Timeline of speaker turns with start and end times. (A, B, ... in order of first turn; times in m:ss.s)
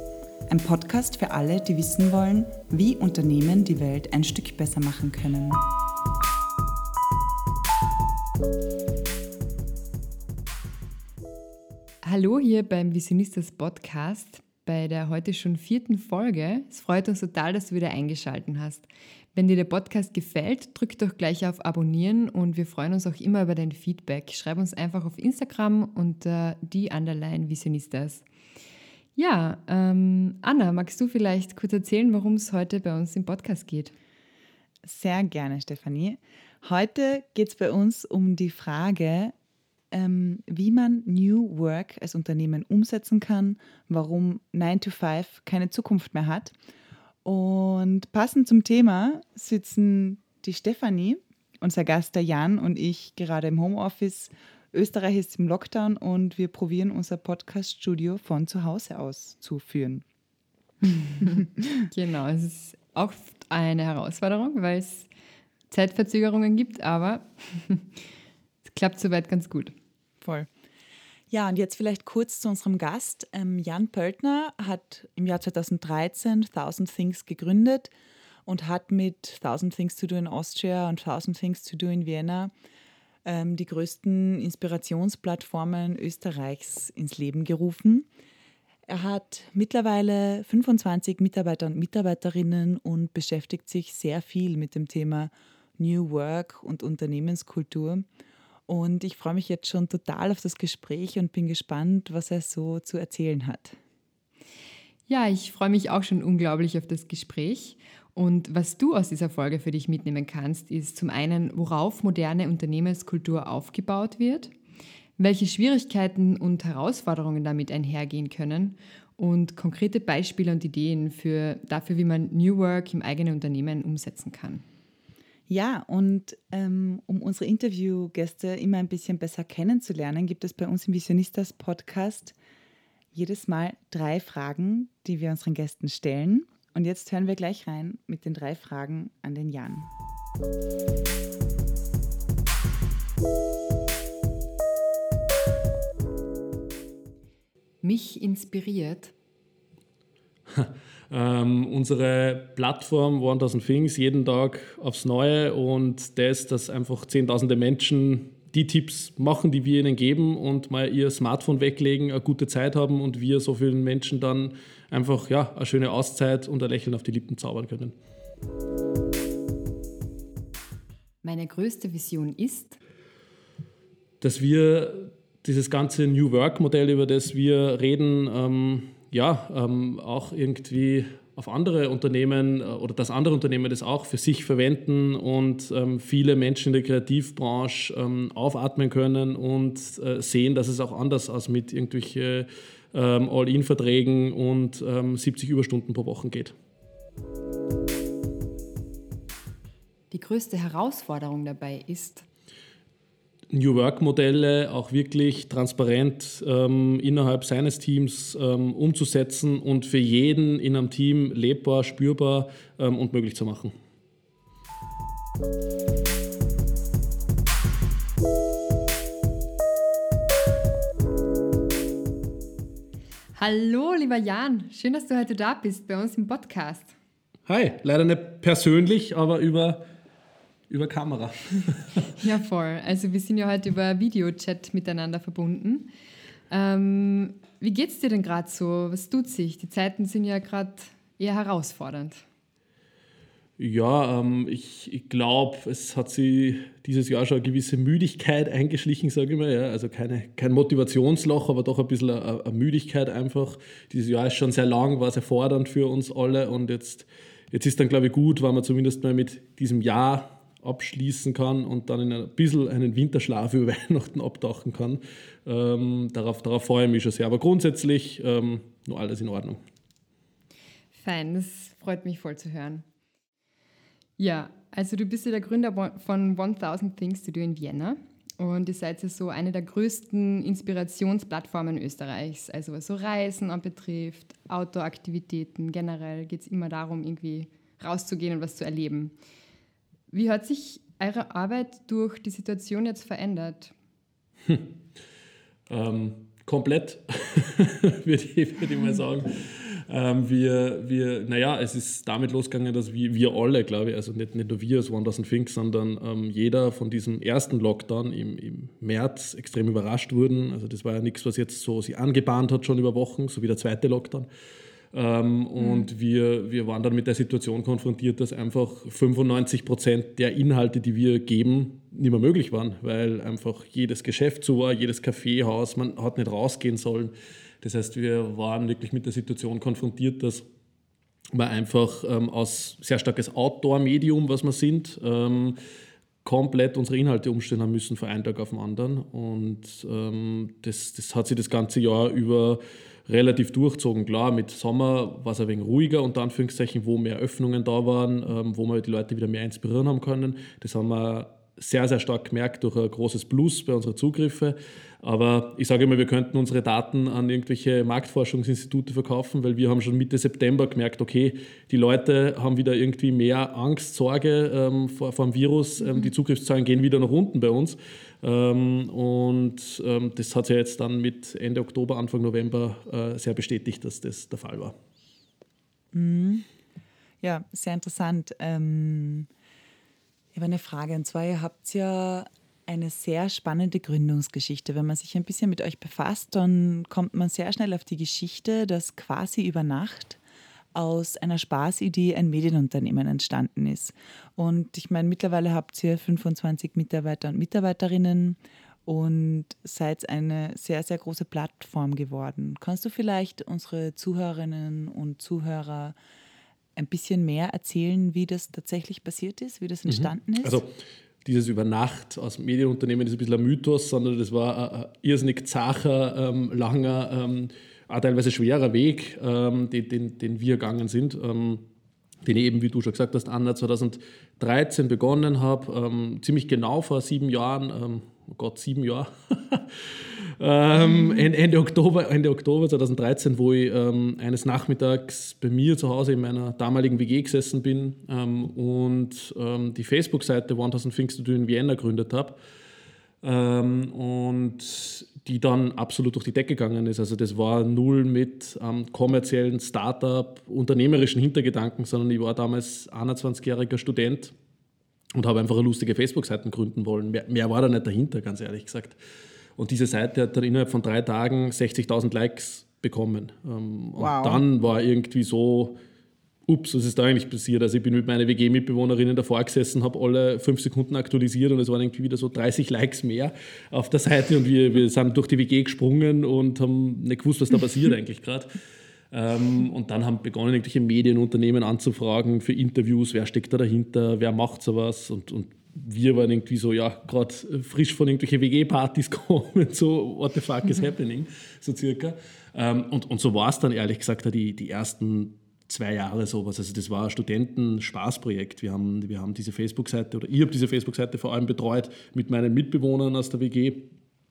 0:00.5-0:05.6 A
0:12.0-0:28.2 B
0:29.2-0:33.9 B
0:34.8-0:39.3 A
0:39.9-0:46.5 A
0:47.2-1:00.0 A
1:01.0-1:05.1 B
1:05.7-1:08.0 B
1:08.6-1:09.7 B
1:10.2-1:10.5 A
1:11.3-1:17.9 A
1:18.4-1:22.5 A
1:23.2-1:28.1 A
1:28.9-1:38.0 A
1:38.7-1:43.8 A
1:45.1-1:54.5 B
1:55.2-2:04.6 B
2:05.5-2:12.3 A
2:13.1-2:19.9 A
2:27.8-2:29.1 B
2:30.5-2:47.9 C
2:51.2-2:52.8 B
2:54.2-3:16.5 C
3:20.1-3:22.2 B
3:23.5-3:33.7 C
3:43.4-3:46.9 B
3:47.5-3:49.8 C
3:50.7-3:52.2 C
3:52.2-3:55.9 B
3:56.5-4:02.2 B
4:03.6-4:29.6 C
4:30.9-4:32.8 B
4:34.2-4:49.1 B
4:50.1-4:53.7 B
4:54.4-4:54.7 C
4:55.7-5:14.3 C
5:14.9-5:30.4 C
5:31.3-5:35.6 C
5:36.2-6:14.7 C
6:15.9-6:16.5 A
6:17.2-6:19.3 A
6:20.3-6:30.2 A
6:30.7-6:46.0 A
6:46.8-6:50.6 A
6:49.9-6:50.7 C
6:51.2-7:01.6 C
7:02.2-7:22.4 C
7:23.2-7:34.3 C
7:35.1-7:39.0 C
7:39.6-7:45.8 C
7:44.0-7:44.4 A
7:46.4-7:58.5 C
7:59.1-8:23.9 C